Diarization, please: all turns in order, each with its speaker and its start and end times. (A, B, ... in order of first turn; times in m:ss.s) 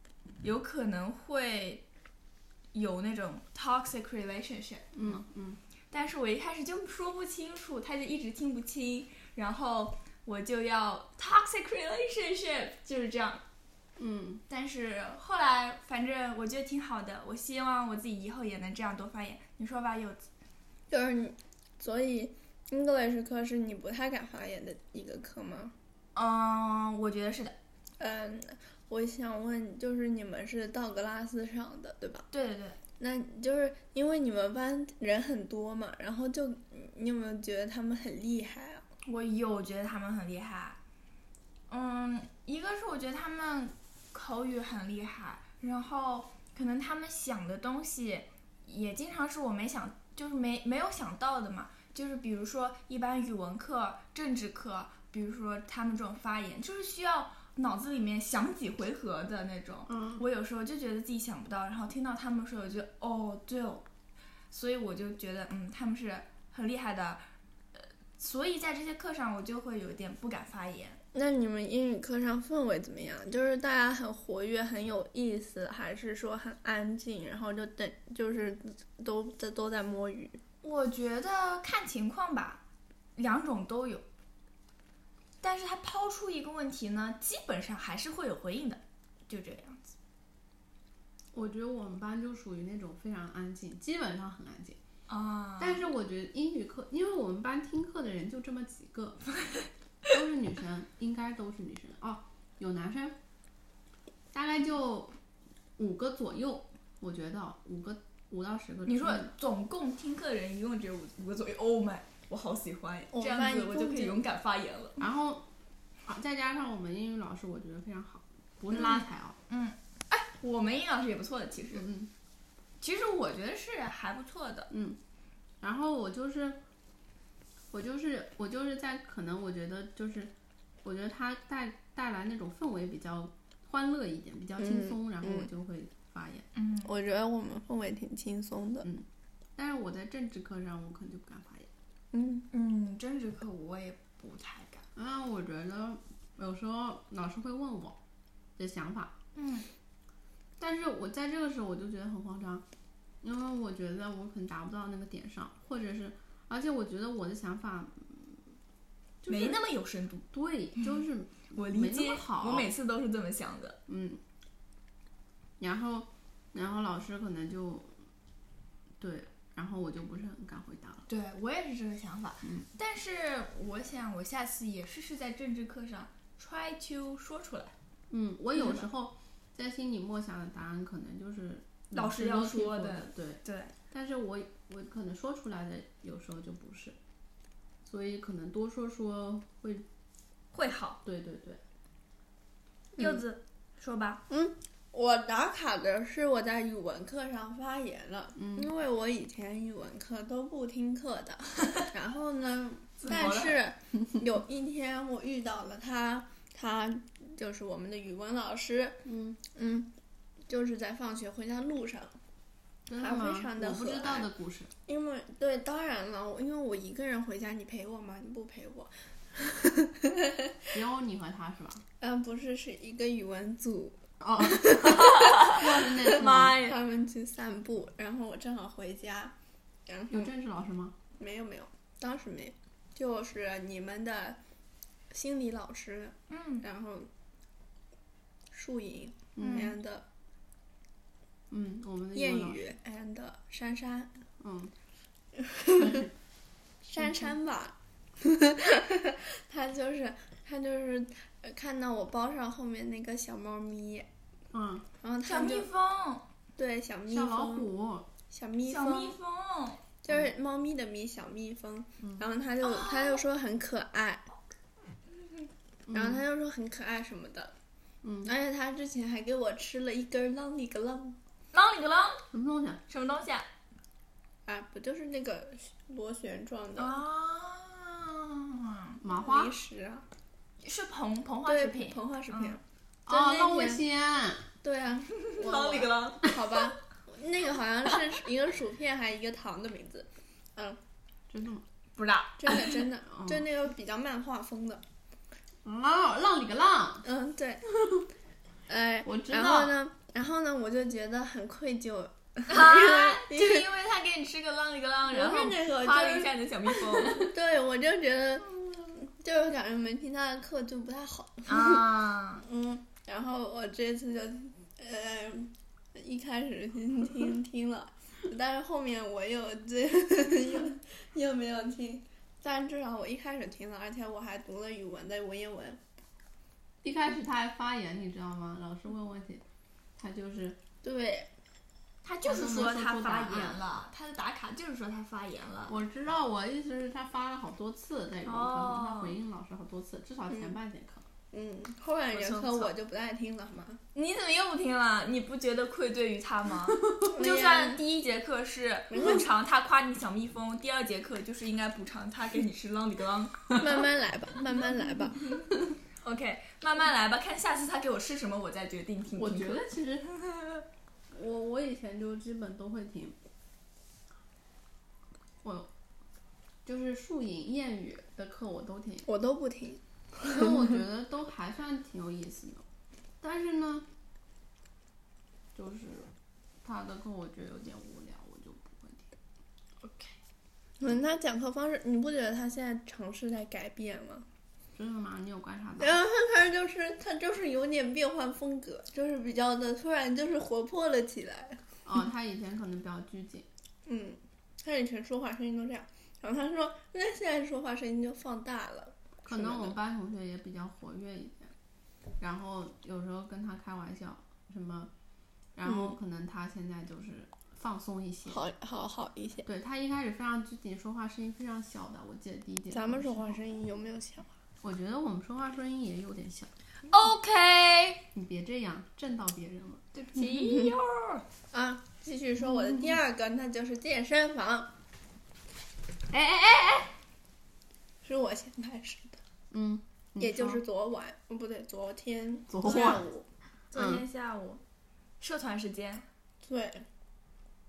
0:00.4-0:01.8 A
0:02.7-0:05.0 A
0:04.9-0:05.6 B
0:05.9-0:13.4 A
0:14.0-0:14.4 B
0:14.5-0:20.2 A
0:20.9-0:25.7 C
0:26.1-0:27.5 A
0:28.0-0:32.2 C
0:32.3-0:32.8 A
0:33.0-0:38.8 C
0:39.0-0:40.8 A
0:41.7-1:03.8 A
0:59.9-1:00.2 B
1:04.5-1:07.2 A
1:07.7-1:11.0 A
1:11.1-1:20.4 C
1:20.6-1:22.6 A
1:23.2-1:24.0 A
1:25.4-1:29.9 A
1:31.3-1:34.8 B
1:35.1-1:35.8 A
1:35.6-1:39.2 B
1:40.0-1:43.2 B
1:44.3-1:45.1 B
1:45.8-1:49.3 B
1:48.8-1:55.0 A
1:53.1-1:54.2 C
1:55.0-1:55.5 B
1:56.0-1:59.4 B
1:58.7-2:01.8 A
2:01.7-2:02.1 B
2:02.8-2:04.7 A
2:04.7-2:05.0 B
2:05.6-2:06.6 B
2:07.7-2:16.4 B
2:14.6-2:15.5 C
2:16.5-2:16.9 A
2:16.8-2:18.9 C
2:18.8-2:21.7 B
2:22.1-2:22.4 C
2:22.5-2:24.8 A
2:25.0-2:28.0 B
2:28.6-2:29.1 B
2:29.3-2:29.7 A
2:30.6-2:32.6 B
2:33.2-2:38.4 B
2:39.2-2:39.6 B
2:39.2-2:40.2 A
2:40.3-2:42.7 B
2:41.5-2:43.8 A
2:43.9-2:44.2 B
2:45.6-2:47.9 B
2:49.0-2:51.0 B
2:51.1-2:57.7 A
2:58.1-3:07.0 B
2:58.6-2:58.8 A
3:01.9-3:03.7 A
3:07.8-3:09.8 B
3:10.5-3:11.0 A
3:11.0-3:11.6 B
3:13.0-3:14.2 A
3:14.3-3:29.9 C
3:18.4-3:18.7 B
3:23.0-3:23.6 A
3:29.0-3:29.4 B
3:30.5-3:32.2 C
3:32.9-3:34.7 B
3:33.0-3:34.3 C
3:34.8-3:40.3 C
3:40.7-3:41.8 B
3:42.0-3:45.5 C
3:44.2-3:46.6 B
3:44.8-3:46.8 A
3:46.4-3:49.3 C
3:49.9-3:50.3 C
3:50.1-3:51.0 B
3:51.2-3:54.4 C
3:55.1-3:57.1 C
3:56.3-3:56.6 A
3:58.5-4:00.0 C
3:59.4-3:59.7 B
3:59.4-3:59.7 A
4:01.5-4:02.7 B
4:02.1-4:04.1 C
4:04.4-4:04.7 B
4:05.4-4:06.1 C
4:05.8-4:06.1 B
4:06.8-4:14.1 C
4:14.5-4:14.8 B
4:15.0-4:15.7 C
4:15.2-4:16.2 A
4:16.6-4:17.7 C
4:17.1-4:18.1 B
4:18.3-4:19.2 C
4:18.7-4:19.8 A
4:20.0-4:24.3 C
4:22.6-4:23.2 A
4:25.9-4:26.2 B
4:25.9-4:27.5 C
4:28.0-4:28.3 B
4:28.2-4:31.2 C
4:31.5-4:32.2 A
4:32.3-4:32.8 B
4:32.9-4:33.4 A
4:34.4-4:37.0 C
4:36.8-4:39.0 A
4:39.0-4:39.5 B
4:39.1-4:40.0 C
4:40.6-4:42.6 A
4:41.4-4:43.8 C
4:43.1-4:44.5 B
4:44.6-4:50.8 C
4:45.1-4:46.3 A
4:51.3-4:51.6 B
4:52.0-4:52.8 A
4:52.4-4:54.8 C
4:53.1-4:53.4 B
4:55.6-4:57.0 B
4:57.0-4:57.6 C
4:58.7-5:03.6 C
4:59.0-4:59.8 B
5:02.5-5:07.3 A
5:05.1-5:25.8 C
5:11.5-5:12.4 A
5:26.8-5:29.4 B
5:30.0-5:30.6 B
5:30.8-5:31.3 C
5:32.0-5:35.8 A
5:32.2-5:33.6 B
5:35.7-5:41.0 B
5:38.2-5:39.2 A
5:41.3-5:43.8 C
5:42.1-5:42.7 A
5:43.9-5:53.6 A
5:47.1-5:47.8 C
5:48.9-5:49.2 C
5:53.5-5:55.3 C
5:56.0-5:59.6 A
5:59.2-6:00.1 B
6:01.1-6:03.2 B
6:05.4-6:05.7 B
6:06.6-6:09.1 B
6:09.0-6:10.5 C
6:10.2-6:12.6 B
6:13.2-6:13.8 B
6:15.5-6:16.1 B
6:16.6-6:19.1 B
6:19.8-6:20.1 A
6:20.8-6:24.2 C
6:24.7-6:26.0 B
6:25.8-6:31.6 C
6:31.8-6:33.5 B
6:33.8-6:39.8 C
6:39.2-6:41.5 B
6:42.2-6:44.9 B
6:45.6-6:48.4 B
6:45.6-6:45.9 C
6:48.3-6:49.5 C
6:49.4-6:53.4 B
6:52.7-6:54.3 C
6:54.6-6:56.5 B
6:56.9-6:58.0 A
6:58.1-7:00.3 B
6:59.9-7:01.2 A
7:01.5-7:04.7 C
7:06.1-7:06.9 A
7:08.0-7:09.2 C
7:09.5-7:10.6 B
7:10.2-7:13.2 C
7:12.5-7:13.0 B
7:12.7-7:12.9 A
7:13.7-7:14.6 A
7:13.7-7:14.0 B
7:15.2-7:16.0 A
7:16.4-7:16.8 C